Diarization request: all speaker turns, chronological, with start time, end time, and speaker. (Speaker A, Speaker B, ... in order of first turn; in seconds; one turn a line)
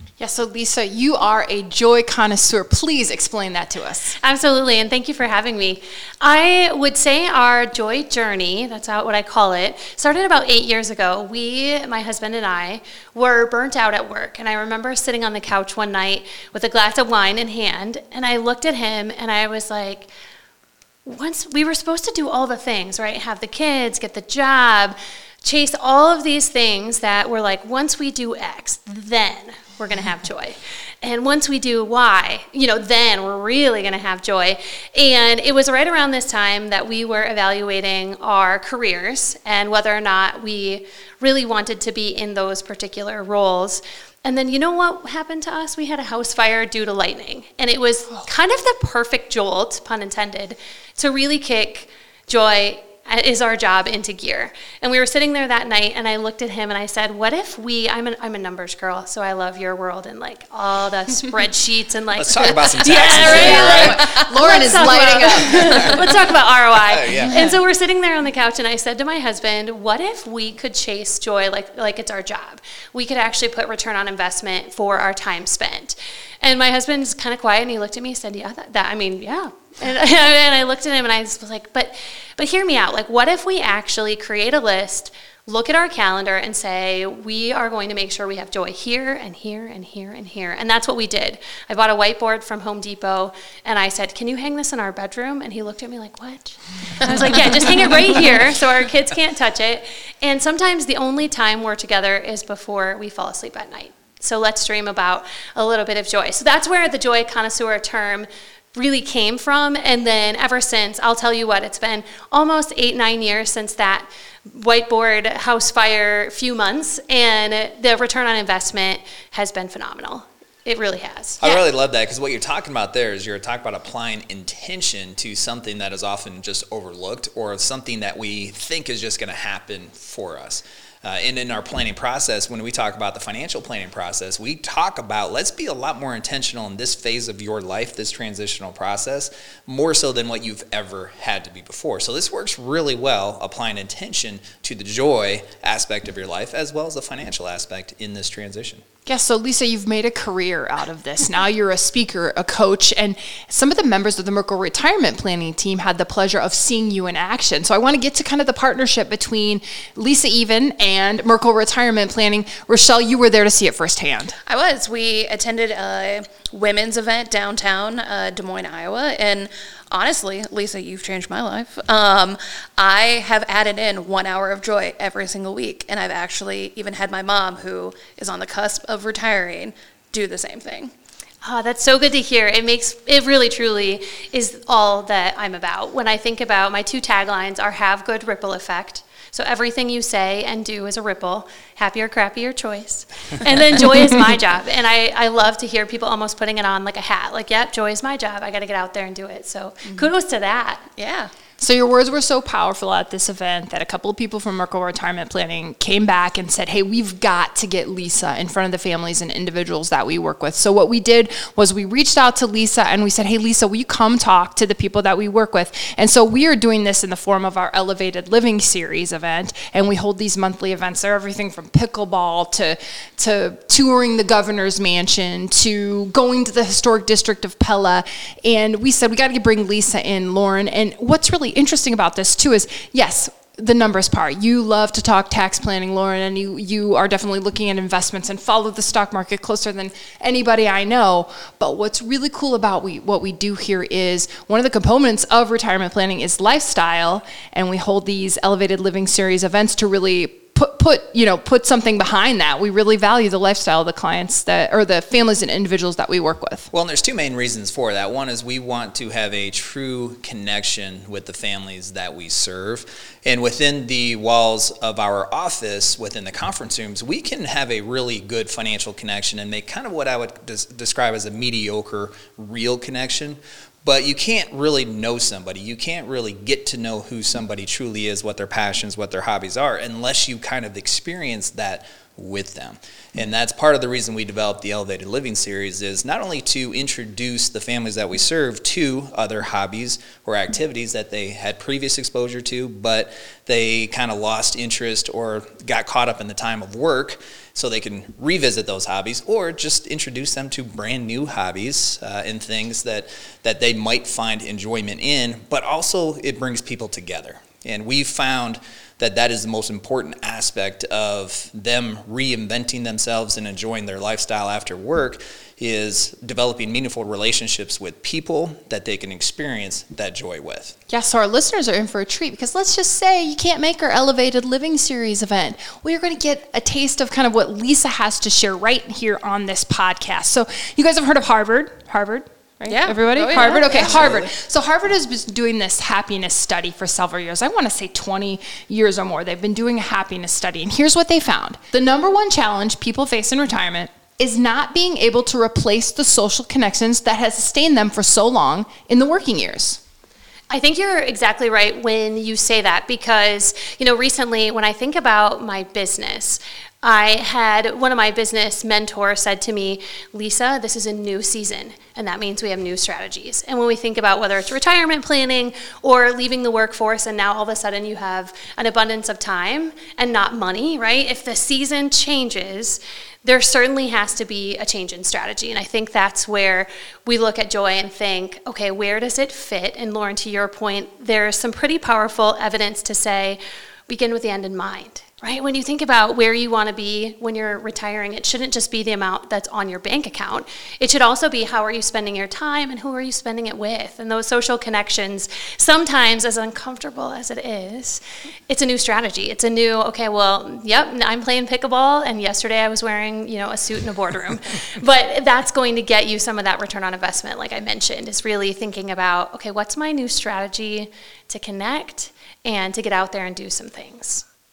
Speaker A: 0.2-4.2
Speaker B: 4.2-20.1
Speaker B: 21.0-121.4
Speaker C: 62.1-64.0
Speaker A: 63.0-66.1
Speaker C: 66.8-67.5
Speaker C: 121.4-148.8
Speaker A: 149.1-164.3
Speaker D: 164.4-180.9
Speaker B: 181.4-200.9
Speaker D: 199.8-200.1
Speaker D: 200.9-201.3
Speaker A: 201.6-256.7
Speaker C: 256.7-320.7
Speaker A: 320.9-349.8
Speaker D: 332.7-334.1
Speaker C: 333.9-334.3
Speaker B: 350.5-414.2